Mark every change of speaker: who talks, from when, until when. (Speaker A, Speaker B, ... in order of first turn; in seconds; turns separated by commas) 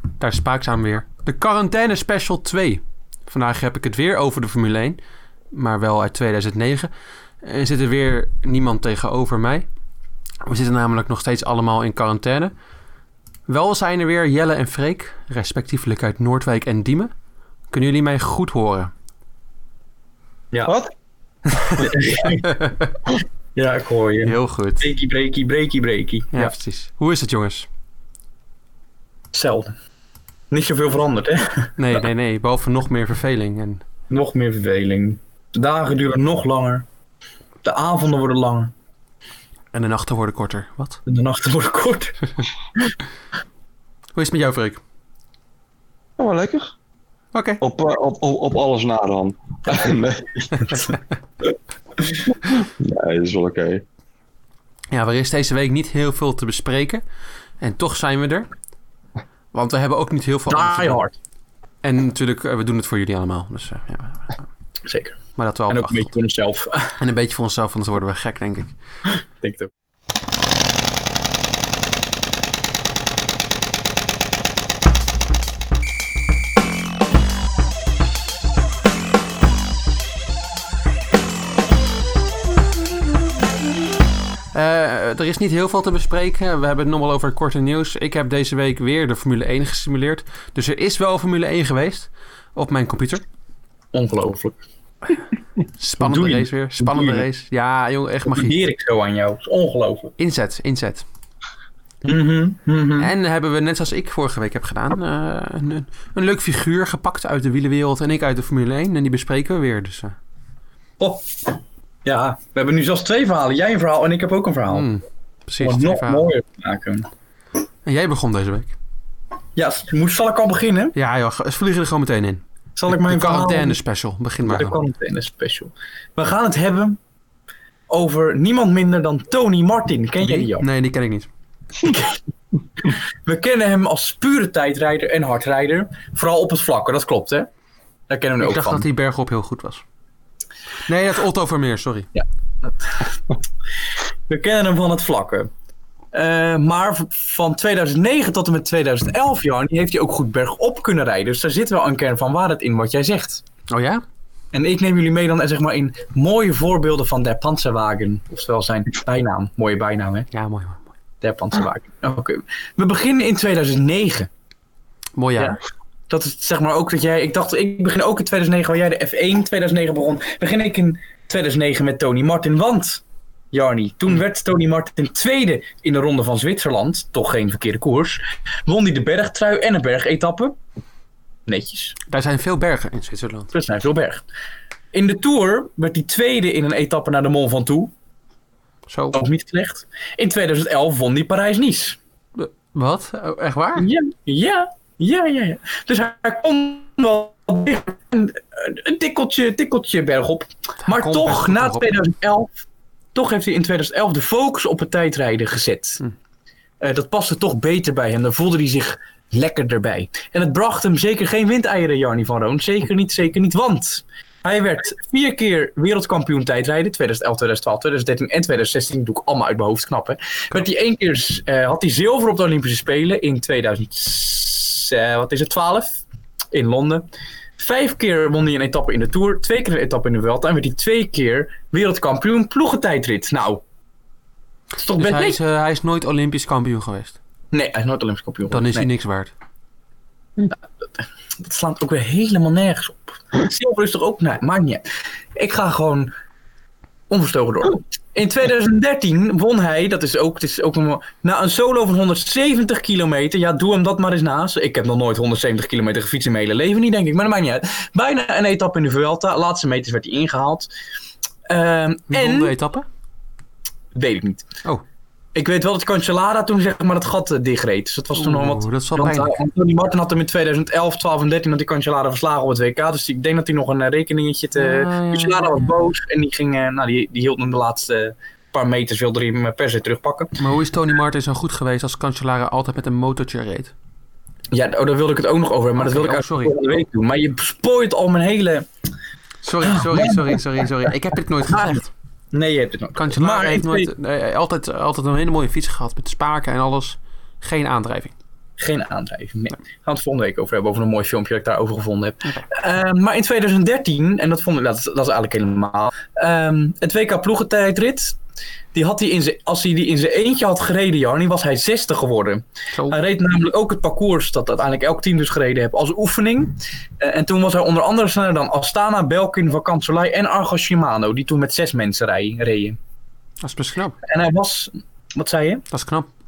Speaker A: 0.2-5.0, Speaker A: 5.5-6.9, Speaker A: 7.4-9.7, Speaker A: 10.4-12.5, Speaker A: 13.5-17.1, Speaker A: 17.7-18.9, Speaker B: 20.6-20.9, Speaker A: 21.5-22.9, Speaker C: 21.8-22.5, Speaker C: 23.5-26.5, Speaker A: 24.2-24.9, Speaker A: 26.3-27.7, Speaker C: 29.3-29.8, Speaker C: 30.5-31.7, Speaker A: 31.8-33.8, Speaker C: 34.1-36.9, Speaker C: 37.6-38.7, Speaker A: 39.7-41.0, Speaker C: 41.0-42.2, Speaker A: 44.1-44.8, Speaker B: 46.2-46.7, Speaker A: 47.3-47.6, Speaker B: 47.6-50.9, Speaker B: 52.4-53.8, Speaker A: 54.9-57.0, Speaker A: 57.6-58.5, Speaker A: 59.5-61.0, Speaker C: 60.5-61.1, Speaker A: 61.8-64.4, Speaker C: 64.8-67.0, Speaker A: 65.4-66.1, Speaker A: 67.0-68.7, Speaker C: 69.4-69.7, Speaker A: 84.5-93.2, Speaker C: 93.9-94.6, Speaker A: 95.8-98.5, Speaker C: 96.0-97.2, Speaker C: 98.3-100.1, Speaker A: 100.2-101.0, Speaker C: 102.0-103.1, Speaker A: 103.0-110.2, Speaker C: 111.0-114.9, Speaker A: 114.7-116.3, Speaker C: 115.6-117.1, Speaker A: 117.8-118.7, Speaker C: 119.5-120.9, Speaker A: 120.9-124.8, Speaker C: 122.8-123.8, Speaker C: 124.4-127.0, Speaker C: 127.9-130.7, Speaker A: 130.2-131.3, Speaker C: 131.8-132.2, Speaker C: 132.8-137.5, Speaker C: 138.1-138.8, Speaker A: 138.4-139.8, Speaker A: 140.9-142.1, Speaker C: 142.1-143.1, Speaker C: 144.3-145.5, Speaker C: 146.1-153.4, Speaker A: 153.7-154.0, Speaker C: 154.5-160.3, Speaker A: 160.3-160.9, Speaker C: 161.2-164.3, Speaker A: 165.2-165.6, Speaker C: 166.1-180.6, Speaker C: 181.5-181.9, Speaker A: 182.1-183.5, Speaker C: 183.5-184.2, Speaker C: 184.9-187.9, Speaker A: 188.9-189.2, Speaker C: 189.1-192.0, Speaker A: 192.4-193.9, Speaker C: 193.8-202.6, Speaker A: 200.8-201.9, Speaker C: 203.1-206.0, Speaker C: 206.8-226.0, Speaker C: 226.5-227.1, Speaker C: 227.6-233.6, Speaker C: 234.8-235.4, Speaker A: 234.9-237.2, Speaker C: 237.5-238.9, Speaker A: 238.5-239.3, Speaker C: 240.4-244.8, Speaker C: 245.3-246.1, Speaker C: 247.1-260.7, Speaker C: 261.5-262.5, Speaker A: 262.1-262.9, Speaker C: 263.9-264.5, Speaker C: 265.3-280.3, Speaker A: 268.1-269.4, Speaker A: 274.5-275.7, Speaker A: 280.4-283.7, Speaker C: 284.5-288.7, Speaker A: 285.8-286.7, Speaker A: 289.4-291.9, Speaker C: 289.6-290.4, Speaker C: 292.3-293.9, Speaker A: 292.9-298.1, Speaker C: 298.6-308.2, Speaker C: 308.7-322.8, Speaker A: 323.4-324.0, Speaker C: 324.0-325.6, Speaker A: 325.7-326.1